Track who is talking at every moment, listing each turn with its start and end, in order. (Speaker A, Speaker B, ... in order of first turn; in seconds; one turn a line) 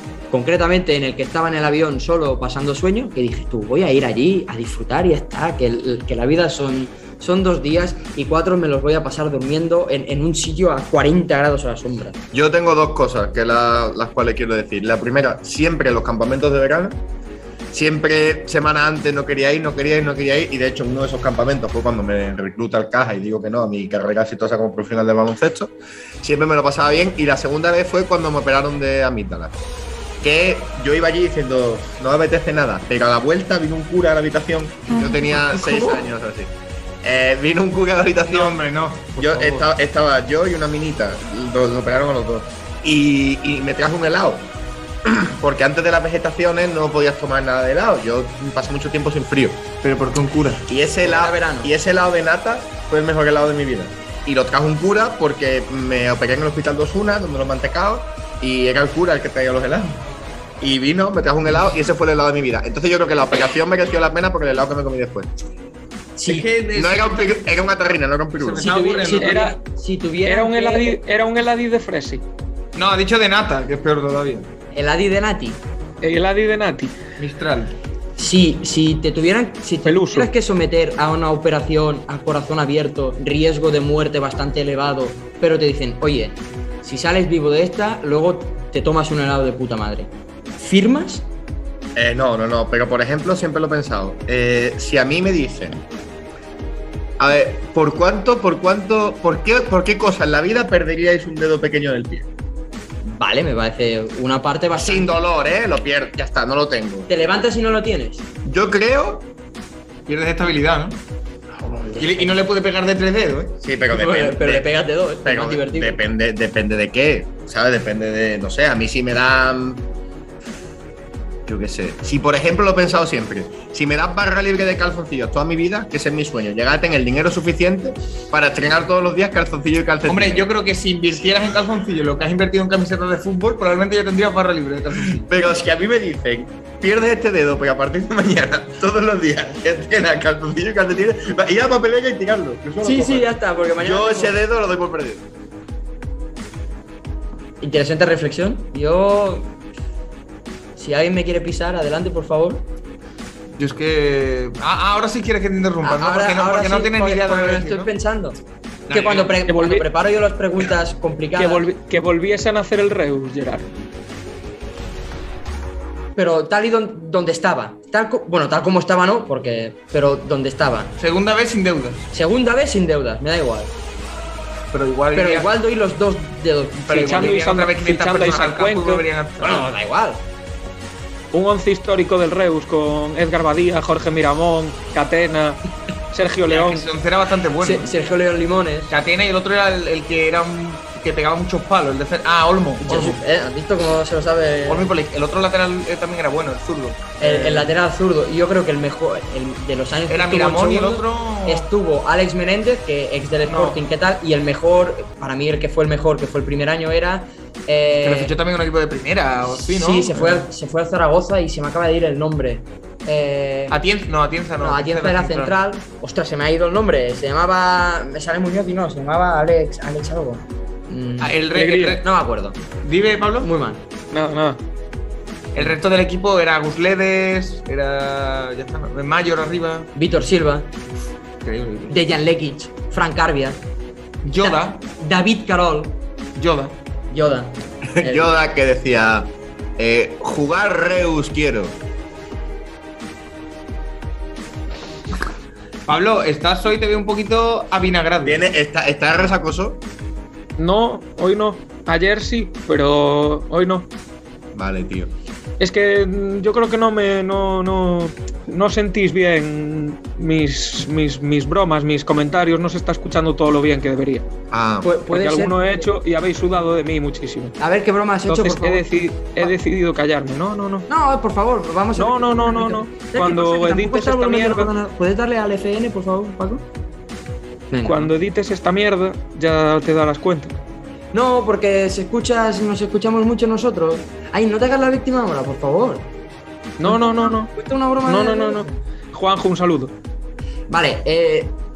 Speaker A: 0.3-12.2
Speaker B: 12.3-17.0
Speaker B: 17.7-29.6
Speaker B: 30.2-38.6
Speaker C: 35.3-36.0
Speaker C: 38.3-39.7
Speaker B: 39.2-44.5
Speaker B: 45.0-49.6
Speaker C: 49.8-50.6
Speaker B: 50.7-60.0
Speaker A: 51.0-51.7
Speaker B: 60.6-65.3
Speaker A: 66.2-66.5
Speaker C: 66.3-67.5
Speaker B: 66.7-68.7
Speaker C: 68.4-69.4
Speaker A: 68.6-71.0
Speaker D: 69.1-69.6
Speaker D: 70.2-72.2
Speaker C: 72.8-74.5
Speaker A: 74.7-75.6
Speaker D: 76.0-77.0
Speaker C: 77.2-77.8
Speaker A: 78.2-91.3
Speaker D: 79.8-80.3
Speaker B: 92.0-95.8
Speaker B: 97.2-102.3
Speaker A: 103.0-105.1
Speaker B: 104.8-107.1
Speaker A: 107.1-108.2
Speaker B: 108.5-109.3
Speaker C: 110.1-111.0
Speaker A: 111.7-112.3
Speaker C: 112.0-113.6
Speaker B: 113.6-114.7
Speaker A: 113.9-116.0
Speaker B: 115.2-119.9
Speaker B: 121.5-130.5
Speaker C: 130.1-135.3
Speaker B: 135.3-143.3
Speaker A: 142.8-144.4
Speaker B: 143.8-145.2
Speaker A: 147.6-149.5
Speaker A: 150.8-152.7
Speaker C: 153.6-157.9
Speaker A: 155.8-158.4
Speaker C: 158.9-159.4
Speaker A: 158.9-161.7
Speaker D: 159.5-159.9
Speaker D: 161.4-163.7
Speaker A: 166.2-170.9
Speaker C: 171.0-172.1
Speaker A: 172.1-173.7
Speaker C: 174.7-175.5
Speaker A: 175.1-177.3
Speaker C: 176.9-179.7
Speaker D: 176.9-179.0
Speaker A: 179.4-180.2
Speaker D: 181.3-185.6
Speaker D: 186.1-186.9
Speaker C: 186.5-187.9
Speaker A: 187.6-188.9
Speaker C: 188.9-193.2
Speaker A: 192.8-194.9
Speaker C: 194.7-197.7
Speaker A: 197.2-208.3
Speaker C: 200.1-201.7
Speaker C: 203.5-203.8
Speaker C: 208.0-210.5
Speaker A: 209.5-213.8
Speaker C: 213.7-215.6
Speaker A: 214.6-222.6
Speaker C: 221.2-222.0
Speaker D: 221.5-222.0
Speaker C: 222.8-223.5
Speaker A: 223.4-223.8
Speaker D: 224.1-224.6
Speaker C: 225.6-229.9
Speaker A: 229.9-230.7
Speaker C: 231.4-231.9
Speaker A: 231.9-233.6
Speaker C: 234.2-234.8
Speaker A: 234.4-236.0
Speaker C: 236.4-236.8
Speaker A: 237.1-238.4
Speaker B: 237.9-241.8
Speaker C: 245.9-248.5
Speaker B: 248.2-249.8
Speaker D: 250.6-253.9
Speaker B: 254.5-255.1
Speaker D: 255.6-264.3
Speaker B: 264.5-264.9
Speaker A: 264.8-265.9
Speaker D: 265.1-267.6
Speaker A: 267.6-268.9
Speaker D: 268.3-270.9
Speaker A: 270.9-276.6
Speaker D: 271.9-274.7
Speaker A: 277.7-278.1
Speaker D: 277.8-280.6
Speaker A: 281.1-286.1
Speaker D: 286.8-287.5
Speaker A: 286.8-288.7
Speaker D: 288.1-289.9
Speaker A: 290.7-291.6